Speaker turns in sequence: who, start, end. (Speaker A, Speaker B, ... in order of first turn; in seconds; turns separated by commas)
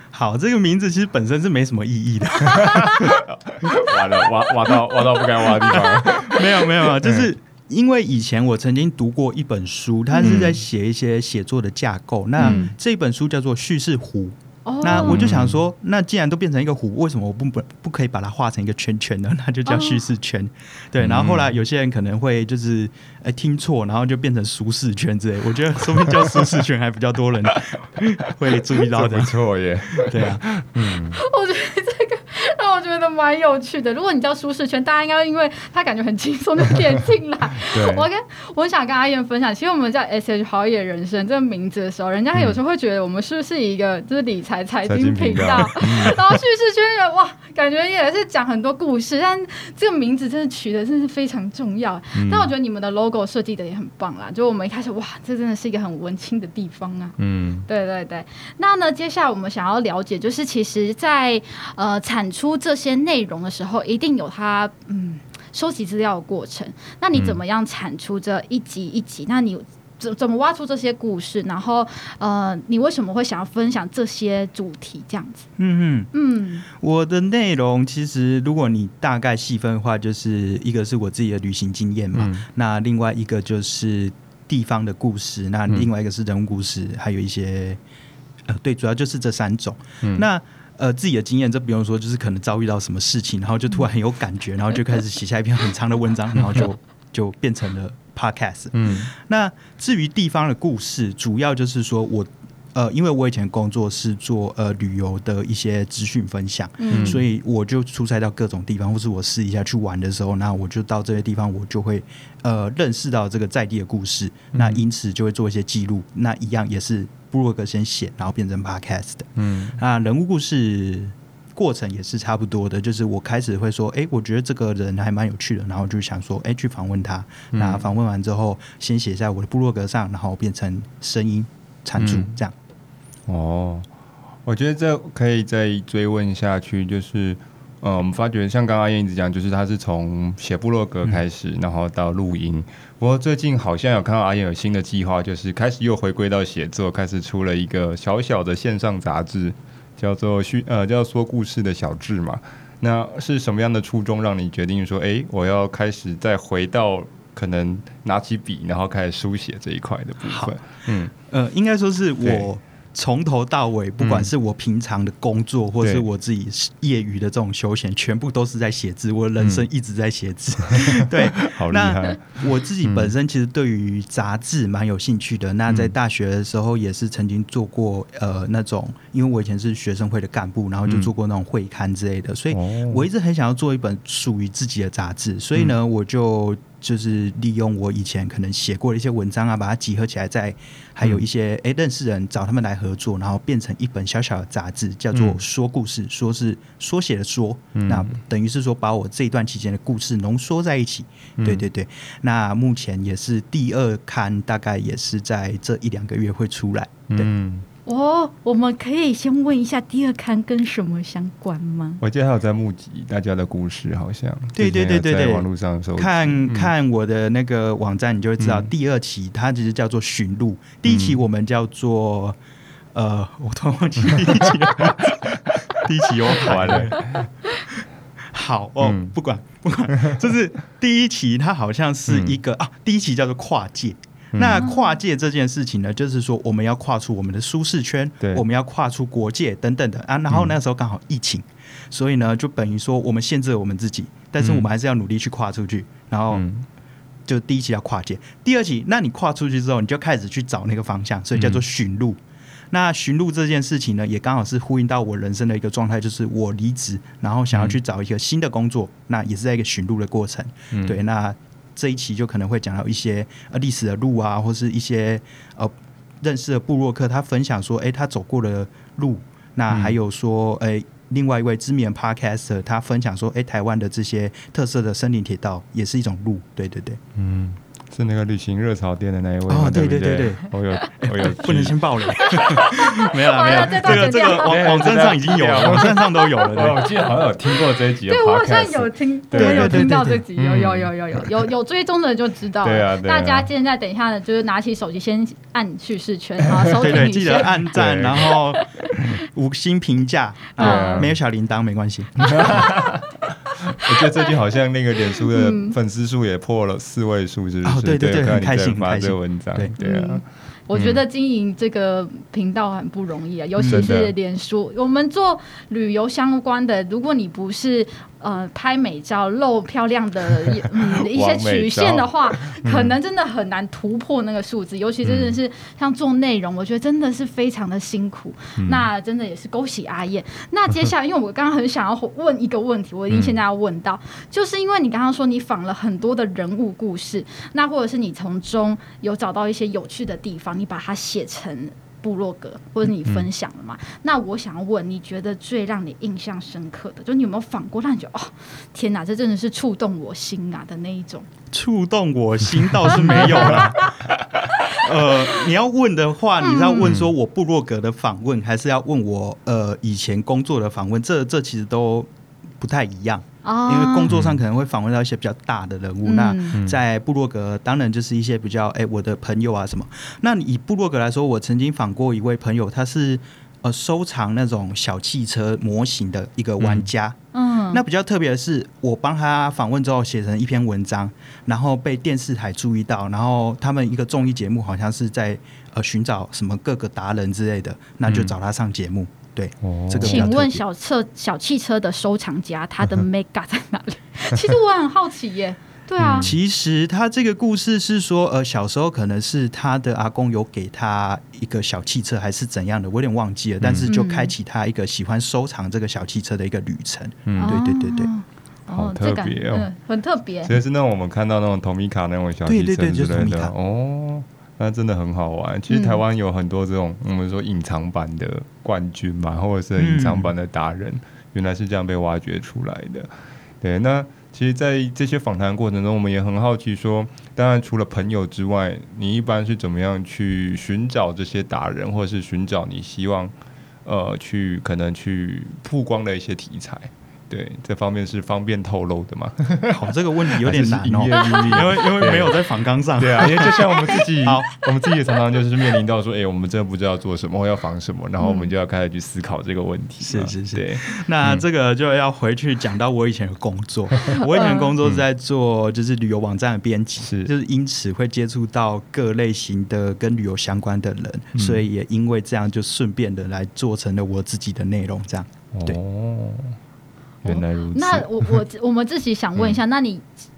Speaker A: 0.1-3.2, Speaker B: 2.5-7.3, Speaker C: 2.5-3.0, Speaker A: 5.6-29.3, Speaker C: 5.6-6.1, Speaker B: 10.2-10.6, Speaker C: 12.4-12.7, Speaker C: 14.6-15.2, Speaker B: 14.9-15.6, Speaker C: 19.6-20.0, Speaker B: 21.0-21.5, Speaker B: 28.7-31.2, Speaker A: 29.9-30.4, Speaker C: 30.8-75.5, Speaker B: 37.7-38.0, Speaker B: 44.9-46.4, Speaker B: 52.1-52.5, Speaker B: 57.2-57.6, Speaker A: 75.6-76.1, Speaker C: 76.1-76.7, Speaker A: 76.7-87.8, Speaker B: 82.1-82.4, Speaker A: 88.5-132.5, Speaker B: 98.8-99.1, Speaker C: 106.8-107.2, Speaker B: 106.9-107.2, Speaker B: 114.5-114.8, Speaker B: 119.4-119.8, Speaker B: 127.5-127.8, Speaker B: 132.0-132.3, Speaker B: 133.3-133.9, Speaker B: 134.4-161.1, Speaker A: 160.3-160.6, Speaker A: 161.2-207.3, Speaker B: 162.2-162.5, Speaker B: 164.0-164.3, Speaker B: 169.4-169.7, Speaker B: 170.7-173.1, Speaker B: 175.7-175.9, Speaker B: 182.5-183.0, Speaker B: 195.1-195.4, Speaker B: 197.7-198.1, Speaker B: 201.4-201.6, Speaker B: 207.1-207.7, Speaker C: 207.8-212.0, Speaker B: 212.0-216.7, Speaker A: 214.5-222.4, Speaker B: 218.4-218.7, Speaker B: 220.9-221.2, Speaker A: 222.9-227.1, Speaker B: 225.0-225.3, Speaker B: 226.3-227.3, Speaker A: 228.3-246.4, Speaker B: 228.8-229.1, Speaker B: 229.9-230.2, Speaker B: 232.1-232.4, Speaker B: 234.3-234.6, Speaker B: 244.4-244.7, Speaker B: 246.3-246.7, Speaker A: 247.3-252.2, Speaker B: 251.3-251.6, Speaker A: 252.7-277.0, Speaker B: 257.5-257.8, Speaker B: 260.7-261.0, Speaker B: 269.7-270.0, Speaker B: 277.1-282.5, Speaker A: 279.5-280.5, Speaker A: 281.0-286.9, Speaker C: 282.1-284.6, Speaker B: 283.5-291.4, Speaker C: 286.0-286.4, Speaker C: 288.1-297.6, Speaker A: 289.3-290.2, Speaker B: 292.6-293.5, Speaker B: 296.6-298.4, Speaker A: 296.7-302.6, Speaker C: 298.2-299.1, Speaker C: 300.6-301.1, Speaker B: 300.6-301.1, Speaker C: 302.2-302.9, Speaker B: 302.2-311.0, Speaker C: 303.8-304.3, Speaker C: 305.1-305.8, Speaker A: 307.6-309.7, Speaker C: 309.8-351.3, Speaker A: 313.6-313.9, Speaker B: 313.6-314.1, Speaker B: 320.9-322.9, Speaker B: 325.0-325.4, Speaker B: 328.6-328.9, Speaker B: 333.1-333.4, Speaker A: 351.5-353.9, Speaker C: 352.9-353.9, Speaker B: 352.9-353.4, Speaker A: 354.7-362.1, Speaker C: 356.4-356.9, Speaker B: 356.8-357.1, Speaker A: 362.6-377.2, Speaker C: 363.4-364.1, Speaker B: 364.1-364.4, Speaker C: 366.0-366.6, Speaker B: 366.5-366.8, Speaker B: 376.6-376.9, Speaker C: 377.3-377.8, Speaker A: 377.7-390.6, Speaker B: 388.1-388.3, Speaker B: 389.6-390.3, Speaker C: 390.0-396.3, Speaker B: 396.0-396.4, Speaker A: 396.2-408.1, Speaker B: 403.6-403.9, Speaker C: 403.9-404.3, Speaker B: 407.3-407.6, Speaker C: 407.4-410.6, Speaker B: 408.7-409.7, Speaker B: 410.4-423.1, Speaker A: 412.4-413.5, Speaker C: 415.7-416.0, Speaker A: 419.8-420.3, Speaker B: 423.6-433.3, Speaker B: 433.8-442.4, Speaker A: 439.7-443.6, Speaker C: 441.1-442.0, Speaker B: 443.0-451.4, Speaker C: 443.4-444.0, Speaker A: 444.2-444.5, Speaker C: 448.2-448.5, Speaker A: 450.0-465.8, Speaker C: 454.3-454.7, Speaker B: 457.0-457.3, Speaker B: 461.3-461.6, Speaker B: 465.5-466.6, Speaker C: 467.2-470.1, Speaker B: 467.2-468.3